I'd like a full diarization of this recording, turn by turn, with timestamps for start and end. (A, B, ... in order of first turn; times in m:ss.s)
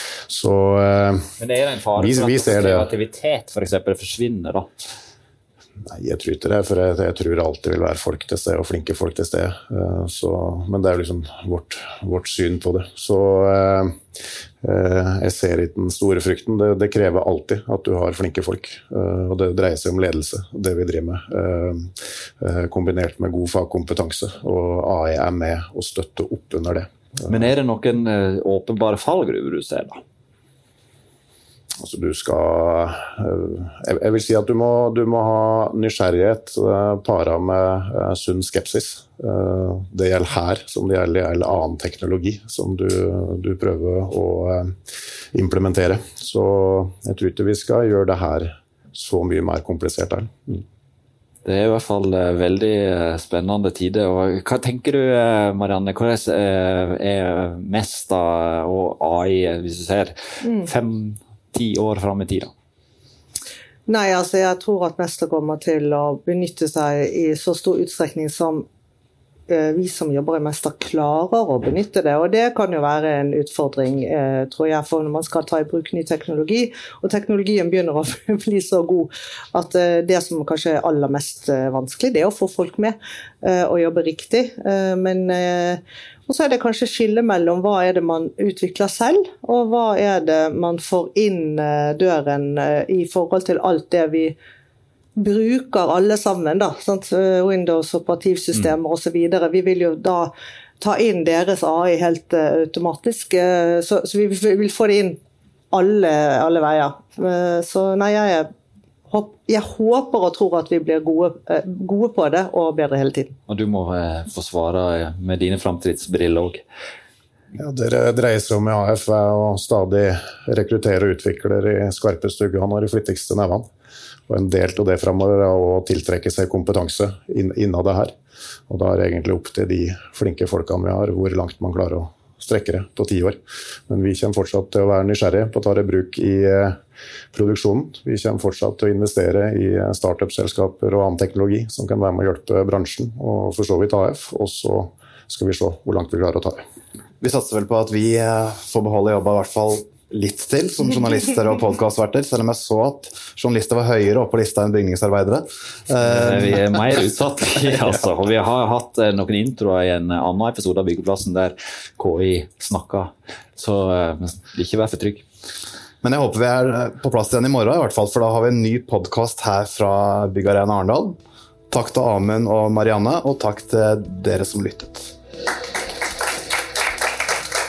0:00.2-0:01.3 A
0:01.4-0:04.7 B
0:02.0-0:02.9 A
0:05.9-0:14.0 A
0:14.6-0:26.9 A
0:27.3-0:30.0 B
0:31.8-0:44.8 A
0:45.3-0:50.6 A
0:51.4-1:02.5 B
1:03.9-1:08.6 C
1:09.5-1:34.4 C
1:35.2-1:45.2 C
1:45.7-1:48.5 C
1:49.1-1:53.4 C
1:53.5-1:56.6 B
1:57.5-2:03.7 A
2:04.3-2:08.1 A
2:08.7-2:16.8 A
2:17.3-2:26.6 A
2:27.2-2:36.9 D
2:36.0-2:45.2 B
2:46.0-2:51.2 D
2:51.7-2:55.1 D